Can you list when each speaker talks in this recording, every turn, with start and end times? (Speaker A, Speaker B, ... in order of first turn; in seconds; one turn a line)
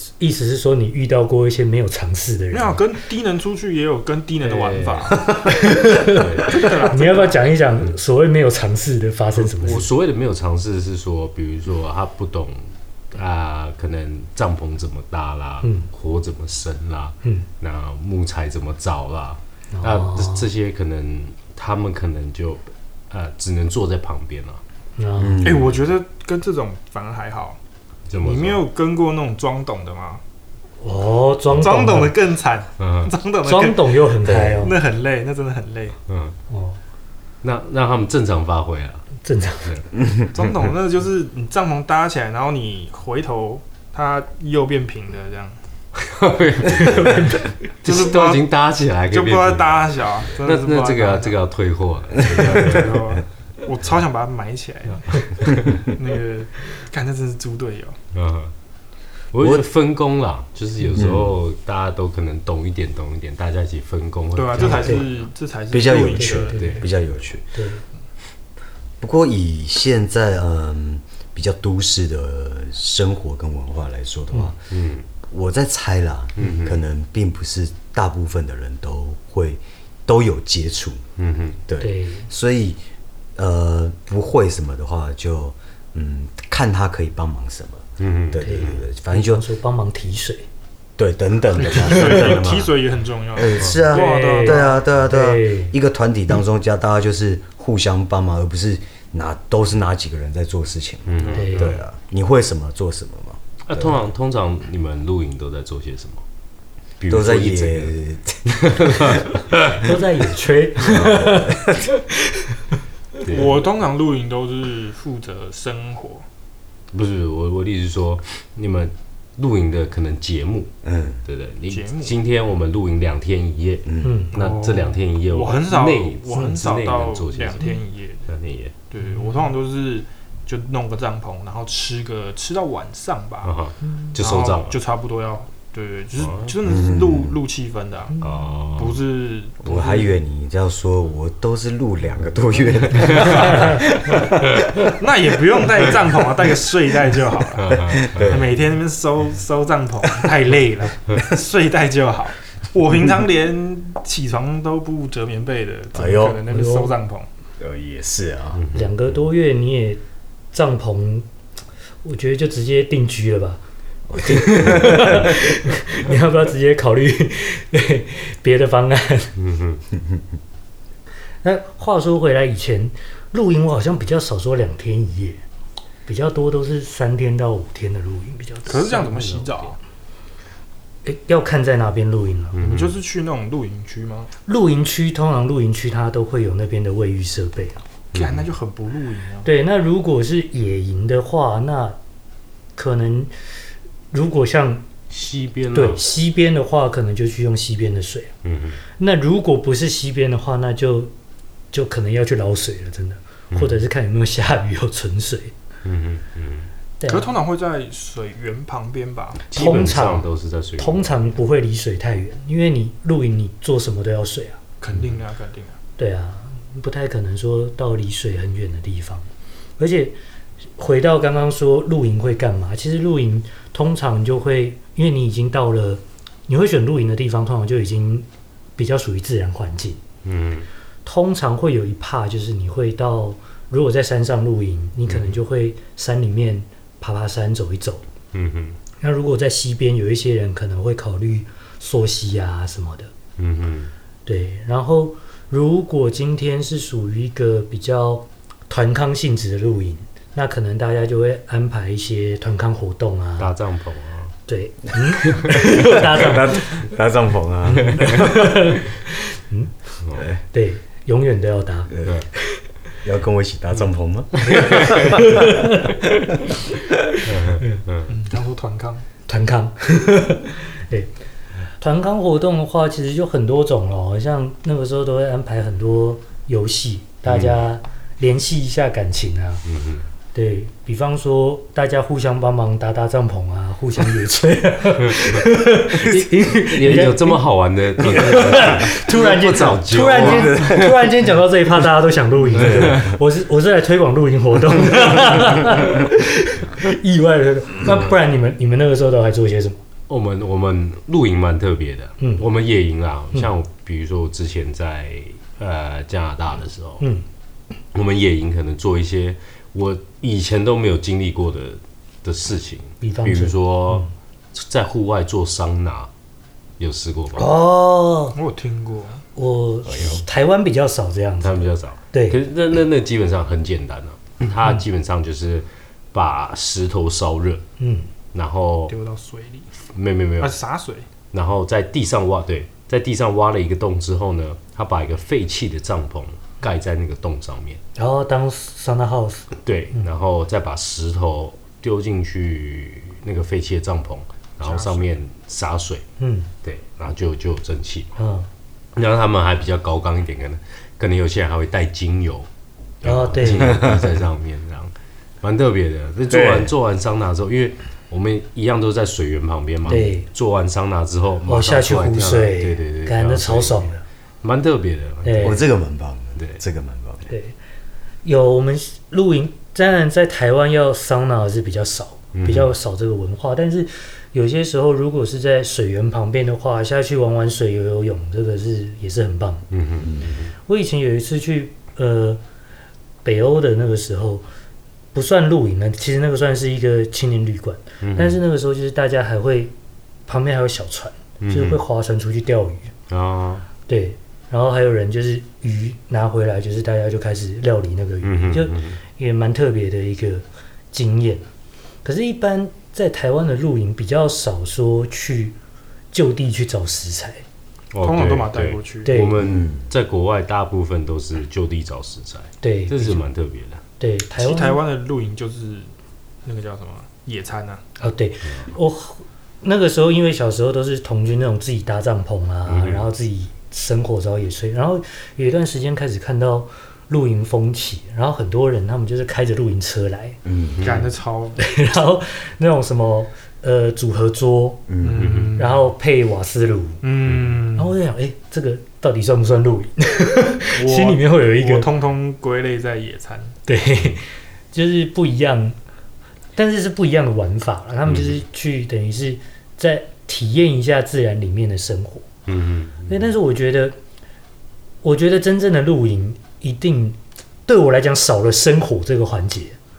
Speaker A: 0.2-2.8
Speaker B: 2.5-5.4
Speaker C: 4.4-5.3
Speaker A: 5.5-9.9
Speaker C: 5.9-6.8
Speaker B: 6.4-7.5
Speaker C: 9.4-24.6
Speaker A: 15.6-15.9
Speaker A: 19.7-20.5
Speaker A: 25.0-25.4
Speaker D: 25.2-25.8
Speaker B: 25.4-27.6
Speaker C: 28.1-28.6
Speaker B: 28.2-30.2
Speaker A: 30.8-32.1
Speaker B: 31.5-36.0
Speaker C: 32.8-33.1
Speaker A: 33.4-34.8
Speaker D: 34.2-34.7
Speaker C: 36.1-36.4
Speaker A: 36.5-36.8
Speaker C: 37.4-39.1
Speaker A: 39.2-39.8
Speaker B: 40.3-45.6
Speaker C: 46.0-53.0
Speaker A: 46.8-47.5
Speaker B: 47.8-48.5
Speaker B: 49.1-51.4
Speaker B: 52.3-58.0
Speaker D: 52.4-52.6
Speaker C: 58.1-58.5
Speaker C: 59.3-65.1
Speaker D: 59.4-59.6
Speaker D: 60.9-61.4
Speaker B: 64.3-66.8
Speaker A: 64.6-65.1
Speaker D: 65.7-67.4
Speaker A: 66.0-66.8
Speaker A: 67.5-67.8
Speaker D: 69.0-74.6
Speaker C: 74.7-75.1
Speaker D: 75.3-81.0
Speaker C: 76.4-76.8
Speaker C: 81.2-81.6
Speaker D: 81.7-82.8
Speaker A: 81.8-82.3
Speaker D: 83.4-89.4
Speaker C: 88.0-88.8
Speaker A: 88.4-90.5
Speaker D: 91.0-92.8
Speaker B: 91.5-94.9
Speaker D: 93.3-104.0
Speaker A: 93.9-95.7
Speaker C: 101.1-101.8
Speaker A: 101.3-101.8
Speaker C: 103.7-106.2
Speaker C: 107.0-107.9
Speaker D: 107.1-109.2
Speaker C: 108.5-109.8
Speaker A: 109.8-112.0
Speaker C: 110.9-111.3
Speaker D: 110.9-111.8
Speaker C: 113.2-113.7
Speaker B: 113.2-116.3
Speaker C: 116.9-120.7
Speaker D: 120.8-121.2
Speaker C: 121.2-128.7
Speaker B: 121.7-122.2
Speaker D: 123.9-124.2
Speaker A: 124.0-124.3
Speaker B: 124.3-128.3
Speaker B: 128.9-133.6
Speaker C: 133.4-134.8
Speaker B: 134.1-138.2
Speaker C: 136.2-136.5
Speaker D: 136.6-137.4
Speaker C: 138.2-139.1
Speaker B: 138.8-140.1
Speaker D: 139.6-144.9
Speaker C: 143.2-143.5
Speaker B: 143.2-143.7
Speaker B: 144.9-157.3
Speaker C: 147.6-148.5
Speaker D: 148.0-148.6
Speaker D: 155.9-156.5
Speaker A: 156.5-156.9
Speaker D: 157.6-158.6
Speaker C: 158.6-159.1
Speaker A: 158.7-160.0
Speaker A: 160.5-161.3
Speaker A: 162.0-163.6
Speaker A: 164.1-169.4
Speaker D: 164.2-165.3
Speaker C: 169.4-169.8
Speaker A: 171.4-175.4
Speaker A: 176.1-179.6
Speaker B: 178.6-179.8
Speaker A: 181.0-182.6
Speaker C: 182.6-182.9
Speaker B: 182.6-184.3
Speaker A: 184.4-187.8
Speaker C: 188.1-188.5
Speaker B: 188.1-189.5
Speaker A: 189.4-192.0
Speaker A: 192.8-193.3
Speaker A: 194.1-194.9
Speaker C: 195.1-196.0
Speaker A: 195.7-198.3
Speaker C: 198.4-198.8
Speaker A: 199.0-201.1
Speaker A: 201.7-205.5
Speaker C: 203.5-203.8
Speaker C: 205.8-206.7
Speaker A: 207.0-207.3
Speaker B: 207.1-210.0
Speaker A: 209.5-210.3
Speaker C: 209.5-211.3
Speaker A: 210.8-214.6
Speaker B: 214.8-215.8
Speaker A: 216.0-219.3
Speaker A: 219.8-220.2
Speaker A: 220.8-230.0
Speaker C: 230.2-230.7
Speaker A: 231.1-238.1
Speaker C: 235.1-235.4
Speaker C: 238.3-238.8
Speaker A: 239.0-243.1
Speaker C: 243.4-243.9
Speaker A: 244.3-253.5
Speaker C: 253.4-254.4
Speaker A: 254.5-256.9
Speaker D: 255.7-258.5
Speaker A: 257.6-259.7
Speaker A: 260.5-262.6
Speaker D: 261.9-262.2
Speaker D: 263.0-265.6
Speaker A: 264.5-266.2
Speaker C: 264.6-265.0
Speaker A: 267.2-267.8
Speaker C: 267.2-268.1
Speaker B: 268.1-269.1
Speaker A: 269.3-271.1
Speaker A: 271.8-279.6
Speaker C: 277.3-277.6
Speaker C: 279.6-280.1
Speaker A: 280.3-287.4
Speaker C: 286.4-291.1
Speaker A: 288.0-299.8
Speaker D: 290.2-290.9
Speaker C: 292.6-293.0
Speaker C: 300.1-307.0
Speaker A: 302.2-302.4
Speaker A: 307.0-307.2
Speaker C: 307.9-316.1
Speaker A: 313.0-314.1
Speaker C: 316.8-317.5
Speaker A: 317.4-318.4
Speaker B: 318.3-319.2
Speaker A: 319.4-322.4
Speaker C: 321.4-327.6
Speaker A: 327.8-328.1
Speaker C: 328.3-328.9
Speaker B: 328.9-329.7
Speaker C: 329.9-330.6
Speaker B: 330.4-331.1
Speaker C: 331.3-337.8
Speaker A: 337.9-340.1
Speaker C: 339.6-346.1
Speaker B: 344.6-345.1
Speaker A: 346.2-346.5
Speaker C: 346.6-348.1
Speaker A: 348.1-348.5
Speaker C: 348.9-352.5
Speaker C: 353.0-363.9
Speaker A: 353.0-353.9
Speaker D: 356.3-356.7
Speaker A: 359.9-360.3
Speaker A: 361.4-364.0
Speaker C: 364.4-365.6
Speaker A: 365.2-365.6
Speaker D: 365.4-367.3
Speaker A: 367.3-367.6
Speaker A: 368.2-379.6
Speaker C: 372.4-372.7
Speaker C: 379.7-380.5
Speaker D: 380.0-380.3
Speaker A: 380.6-382.4
Speaker A: 383.2-384.4
Speaker A: 385.1-389.7
Speaker C: 388.0-388.4
Speaker A: 390.3-392.9
Speaker C: 391.4-391.8
Speaker C: 393.1-393.6
Speaker A: 393.9-401.4
Speaker C: 398.2-399.0
Speaker A: 402.0-405.6
Speaker A: 406.1-407.4
Speaker C: 407.9-413.8
Speaker B: 408.0-409.2
Speaker A: 409.1-409.4
Speaker D: 409.4-409.9
Speaker A: 412.6-413.2
Speaker A: 414.0-414.8
Speaker B: 414.3-415.9
Speaker B: 416.4-417.8
Speaker A: 418.0-430.4
Speaker C: 422.7-423.1
Speaker D: 430.4-430.9
Speaker C: 430.8-431.1
Speaker B: 430.8-431.6
Speaker A: 431.6-434.9
Speaker D: 434.9-435.4
Speaker B: 435.0-435.9
Speaker C: 435.2-435.5
Speaker A: 435.6-437.0
Speaker B: 437.0-437.9
Speaker A: 437.8-441.9
Speaker B: 440.8-443.6
Speaker A: 443.6-445.8
Speaker A: 446.6-452.3
Speaker C: 448.1-448.4
Speaker C: 452.5-453.2
Speaker A: 453.1-454.0
Speaker A: 455.0-459.8